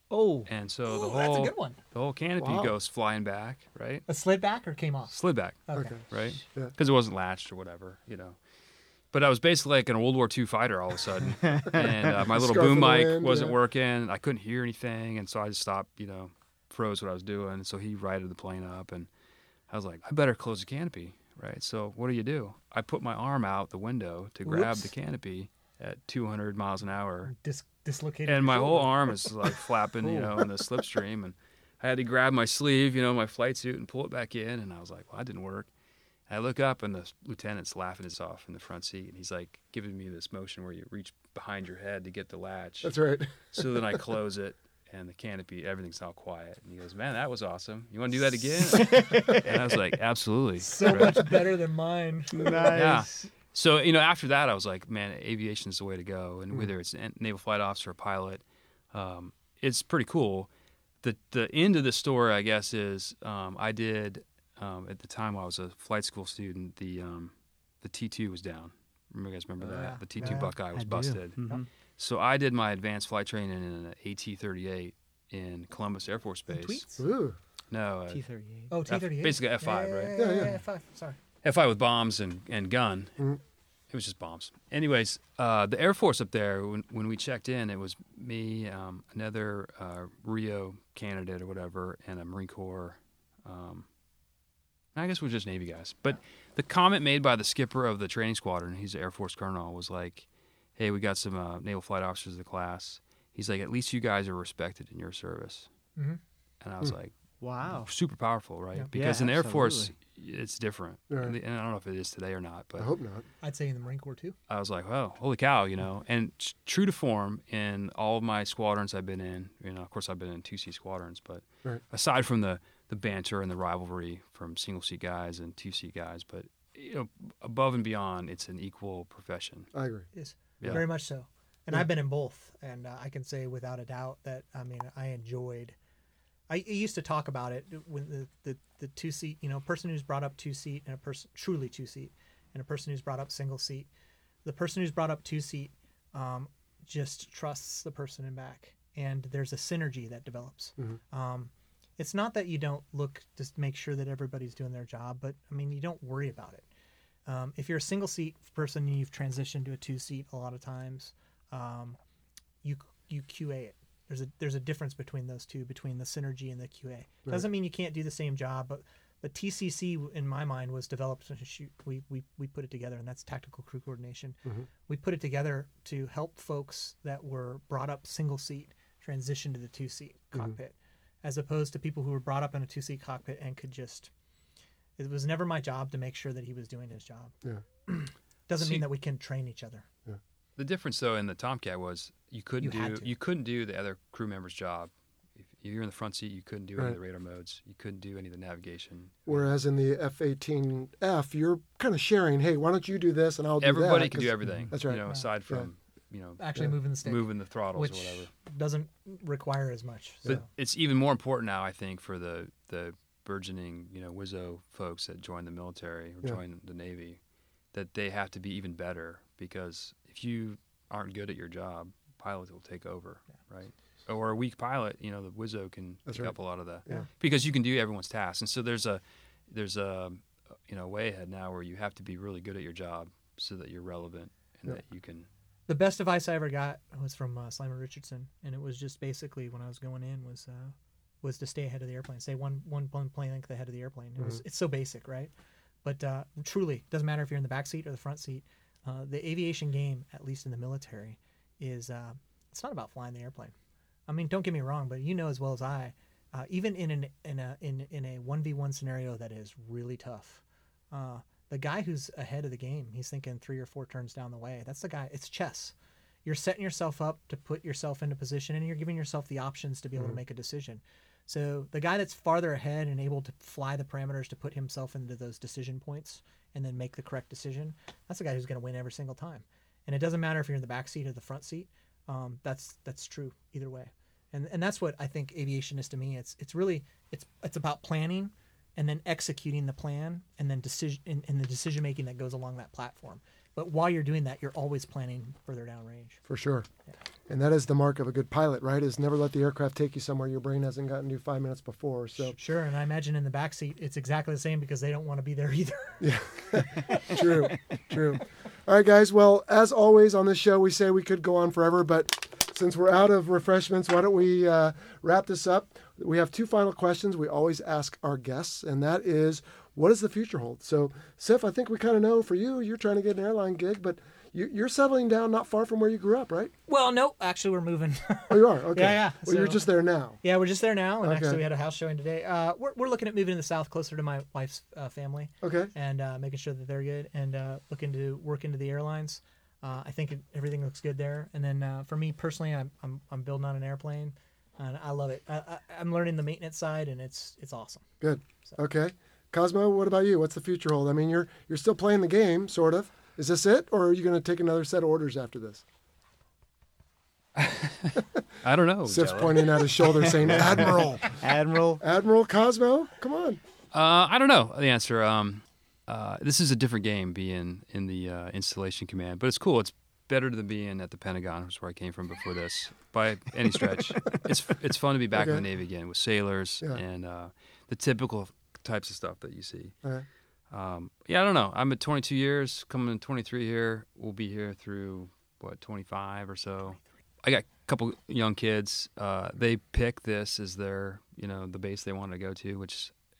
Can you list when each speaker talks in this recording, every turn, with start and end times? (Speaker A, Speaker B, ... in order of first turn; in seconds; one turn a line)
Speaker A: 0.1-1.8
Speaker B: 0.5-4.0
Speaker C: 2.4-2.7
Speaker A: 4.1-5.2
Speaker B: 5.1-8.3
Speaker A: 5.7-5.9
Speaker C: 5.7-6.7
Speaker B: 9.1-19.1
Speaker D: 11.5-11.8
Speaker C: 12.2-13.6
Speaker B: 19.7-27.3
Speaker A: 24.5-24.8
Speaker A: 27.3-28.9
Speaker B: 28.3-35.7
Speaker B: 36.3-51.3
Speaker C: 42.8-44.0
Speaker D: 48.6-49.6
Speaker A: 50.6-52.7
Speaker D: 52.3-53.3
Speaker B: 52.7-60.5
Speaker B: 61.0-71.4
Speaker A: 69.6-70.5
Speaker D: 70.7-71.6
Speaker B: 72.0-76.9
Speaker A: 76.5-77.0
Speaker C: 77.0-77.4
Speaker B: 77.7-78.2
Speaker D: 78.1-78.7
Speaker A: 78.7-81.2
Speaker B: 78.9-80.1
Speaker C: 80.1-80.6
Speaker B: 81.4-83.2
Speaker B: 83.9-93.8
Speaker B: 94.9-105.7
Speaker B: 106.6-107.1
Speaker D: 107.4-107.9
Speaker B: 107.7-112.9
Speaker D: 108.9-109.9
Speaker C: 111.1-111.3
Speaker C: 112.8-113.3
Speaker A: 113.4-114.3
Speaker B: 114.5-129.7
Speaker C: 129.7-130.1
Speaker A: 130.1-135.7
Speaker A: 136.5-143.9
Speaker A: 144.4-156.7
Speaker A: 157.3-162.0
Speaker A: 162.6-184.1
Speaker A: 185.0-187.3
Speaker A: 187.8-189.8
Speaker B: 188.6-188.8
Speaker B: 190.6-199.5
Speaker A: 192.6-193.1
Speaker C: 199.3-205.7
Speaker B: 203.6-208.3
Speaker A: 206.4-210.4
Speaker B: 210.3-217.2
Speaker B: 217.7-235.3
Speaker C: 226.1-226.3
Speaker A: 235.7-245.3
Speaker A: 245.8-253.5
Speaker A: 254.1-265.7
Speaker A: 266.2-296.2
Speaker C: 296.3-296.7
Speaker C: 297.3-302.4
Speaker A: 302.2-307.5
Speaker C: 306.0-326.5
Speaker A: 326.7-329.7
Speaker C: 328.3-330.2
Speaker A: 330.2-347.9
Speaker C: 331.0-331.4
Speaker C: 335.4-335.7
Speaker C: 348.0-355.6
Speaker B: 357.4-360.7
Speaker C: 358.9-361.1
Speaker D: 360.1-361.8
Speaker C: 361.8-363.4
Speaker B: 363.7-379.7
Speaker C: 375.1-375.4
Speaker B: 380.5-392.9